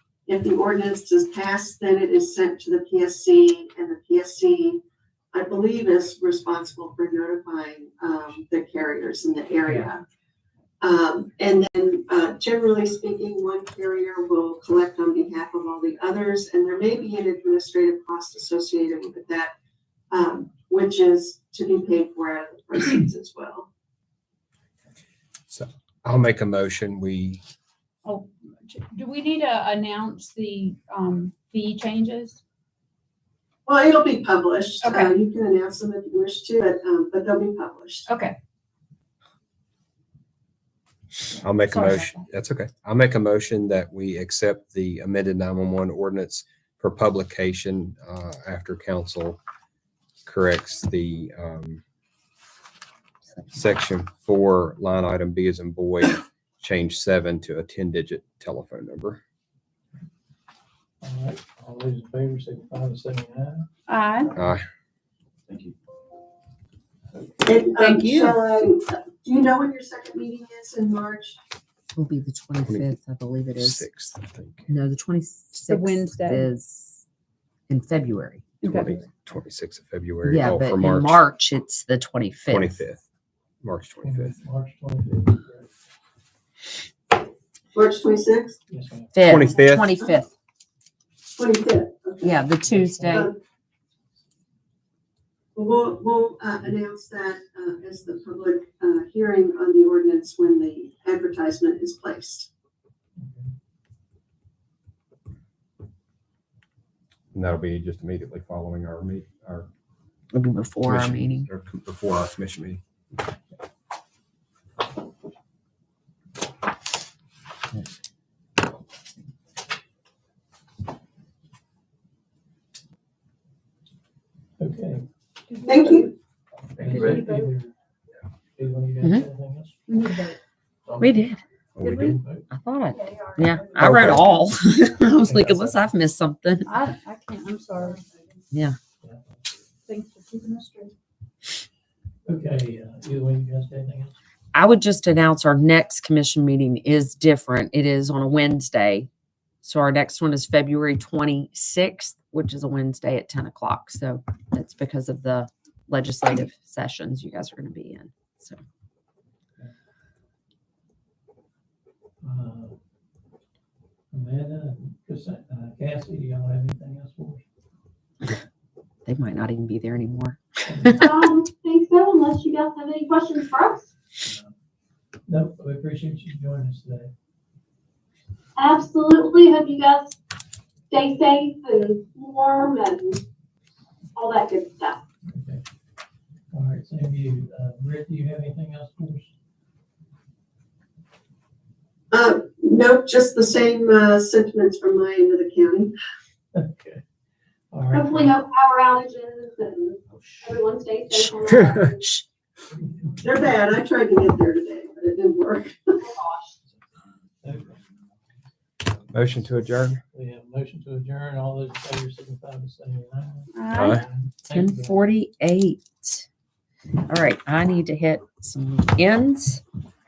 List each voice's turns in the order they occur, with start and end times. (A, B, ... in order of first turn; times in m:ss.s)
0:00.3-0:04.8 A
0:05.3-0:10.0 A
0:10.8-0:19.5 A
0:20.1-0:23.7 A
0:25.5-0:27.4 B
0:28.0-0:32.4 C
0:33.6-0:38.1 A
0:34.8-0:35.1 C
0:38.1-0:38.4 C
0:41.4-0:49.4 B
0:41.7-0:42.2 C
0:50.2-0:51.8 B
0:53.5-0:59.2 B
1:01.0-1:03.7 D
1:03.9-1:04.3 C
1:04.3-1:04.5 D
1:04.3-1:04.6 B
1:07.4-1:11.4 A
1:07.8-1:08.4 C
1:11.9-1:13.9 E
1:12.6-1:12.9 B
1:13.6-1:14.7 B
1:14.7-1:17.0 E
1:15.6-1:16.5 C
1:17.7-1:18.4 E
1:18.6-1:19.0 C
1:18.6-1:21.2 B
1:20.2-1:22.8 E
1:22.5-1:23.0 B
1:23.6-1:24.4 B
1:24.0-1:25.7 D
1:27.7-1:28.6 A
1:28.7-1:29.2 D
1:29.1-1:30.3 E
1:29.2-1:29.9 B
1:31.3-1:32.4 A
1:32.2-1:33.3 E
1:32.6-1:33.3 D
1:33.0-1:33.4 A
1:35.5-1:42.5 A
1:43.2-1:43.5 D
1:47.3-1:49.7 B
1:50.3-1:51.5 E
1:50.8-1:52.8 B
2:04.6-2:05.0 D
2:05.5-2:05.9 C
2:05.5-2:06.1 F
2:05.6-2:06.1 A
2:06.7-2:07.7 D
2:06.8-2:07.5 C
2:08.6-2:09.8 D
2:09.9-2:10.4 C
2:10.8-2:11.3 D
2:11.0-2:11.4 E
2:11.8-2:12.2 B
2:11.8-2:12.1 C
2:12.0-2:12.4 D
2:12.5-2:16.7 E
2:12.9-2:13.6 F
2:13.7-2:14.3 B
2:15.2-2:15.9 D
2:16.6-2:18.2 C
2:18.5-2:18.8 E
2:19.0-2:19.4 D
2:19.9-2:20.9 C
2:22.2-2:24.2 D
2:24.5-2:29.1 E
2:29.6-2:38.6 E
2:42.2-2:42.8 D
2:44.1-2:47.4 D
2:49.0-2:51.1 E
2:50.7-2:51.1 D
2:51.0-2:53.9 F
2:54.2-2:54.5 D
2:55.3-2:57.1 D
2:58.6-3:00.2 F
3:00.9-3:03.2 F
3:04.1-3:05.0 F
3:05.2-3:05.6 D
3:06.5-3:09.3 D
3:12.1-3:15.9 A
3:16.5-3:17.0 D
3:17.7-3:18.4 D
3:17.9-3:22.2 F
3:22.7-3:23.2 D
3:23.2-3:26.0 A
3:26.0-3:26.6 F
3:27.4-3:27.8 D
3:29.1-3:30.0 B
3:30.1-3:35.0 D
3:33.5-3:34.0 C
3:33.7-3:34.0 B
3:34.4-3:36.2 E
3:37.0-3:39.6 E